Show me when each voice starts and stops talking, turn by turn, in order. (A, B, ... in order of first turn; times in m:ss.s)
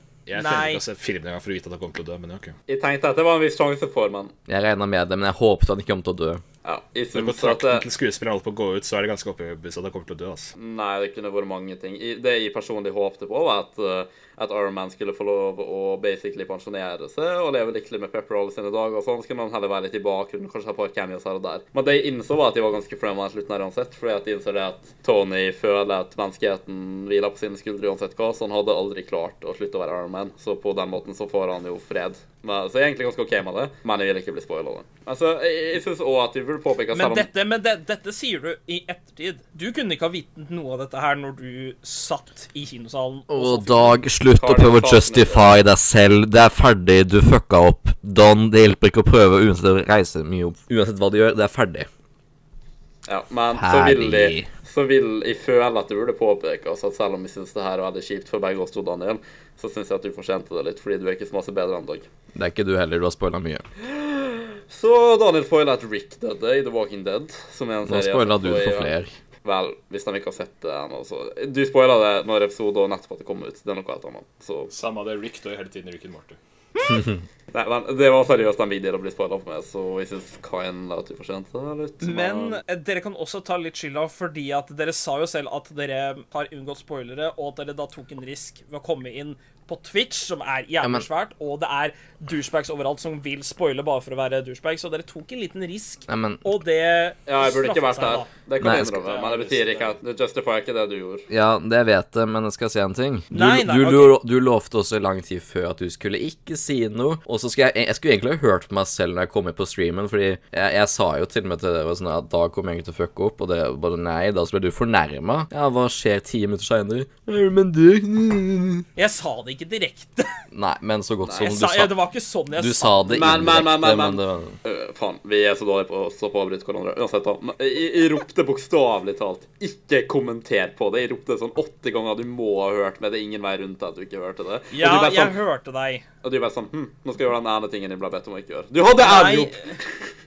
0:00.2-0:02.6 A
0:00.3-0:00.8 B
0:02.7-0:04.3 C
0:04.5-0:06.4 D
0:06.6-0:07.8 C
0:07.1-0:10.5 A
0:10.6-0:37.3 C
0:36.9-0:44.0 B
0:43.3-0:51.9 D
0:44.4-0:45.6 C
0:53.1-1:02.1 C
0:53.6-0:54.5 D
1:02.3-1:03.6 D
1:03.8-1:14.7 C
1:07.8-1:09.1 D
1:14.7-1:16.4 A
1:16.8-1:17.2 D
1:17.5-1:22.6 C
1:22.0-1:39.9 B
1:30.8-1:31.1 D
1:36.1-1:36.5 D
1:37.2-1:41.3 C
1:38.6-1:39.0 D
1:41.3-1:58.8 D
1:43.3-1:44.2 B
1:59.0-2:00.3 B
2:00.5-2:02.0 D
2:01.2-2:01.5 C
2:01.4-2:03.3 B
2:02.5-2:04.6 D
2:03.1-2:15.4 C
2:14.7-2:16.0 B
2:16.2-2:19.8 C
2:19.0-2:19.7 B